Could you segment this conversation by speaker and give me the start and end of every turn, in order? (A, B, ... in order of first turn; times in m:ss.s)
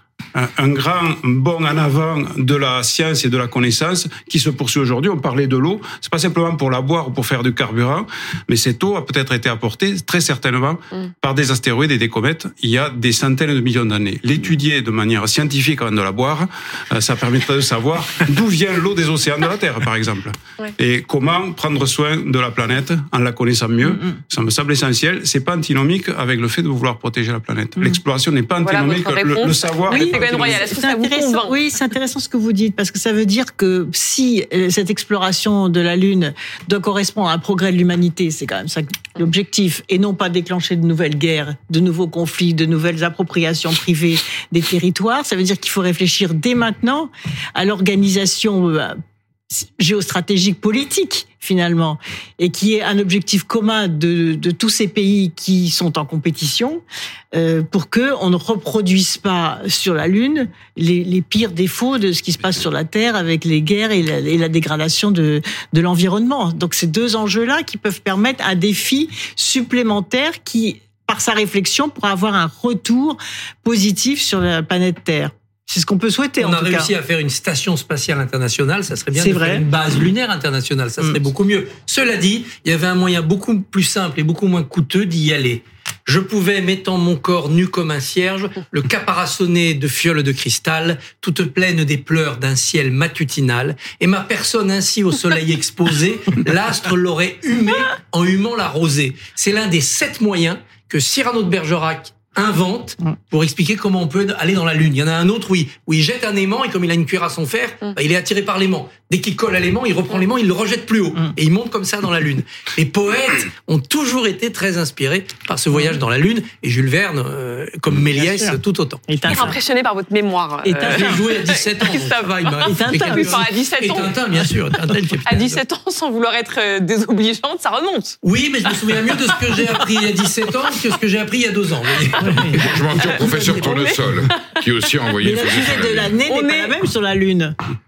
0:00.3-0:30.6 A
0:28.6-0:31.6 B
0:29.9-0:49.0 C
0:49.5-0:56.8 C
0:57.3-1:16.9 C
1:16.4-1:59.2 D
1:19.1-1:19.7 C
1:55.7-1:56.0 C
1:58.1-1:59.6 C
1:59.3-2:04.2 B
2:00.6-2:01.4 C
2:00.8-2:05.6 D
2:02.6-2:03.4 C
2:04.4-2:05.2 C
2:05.2-2:08.2 B
2:08.2-2:12.8 D
2:12.2-2:12.6 C
2:12.6-2:16.1 E
2:13.0-2:14.0 B
2:13.2-2:13.8 C
2:15.2-2:17.6 C
2:16.3-2:16.8 B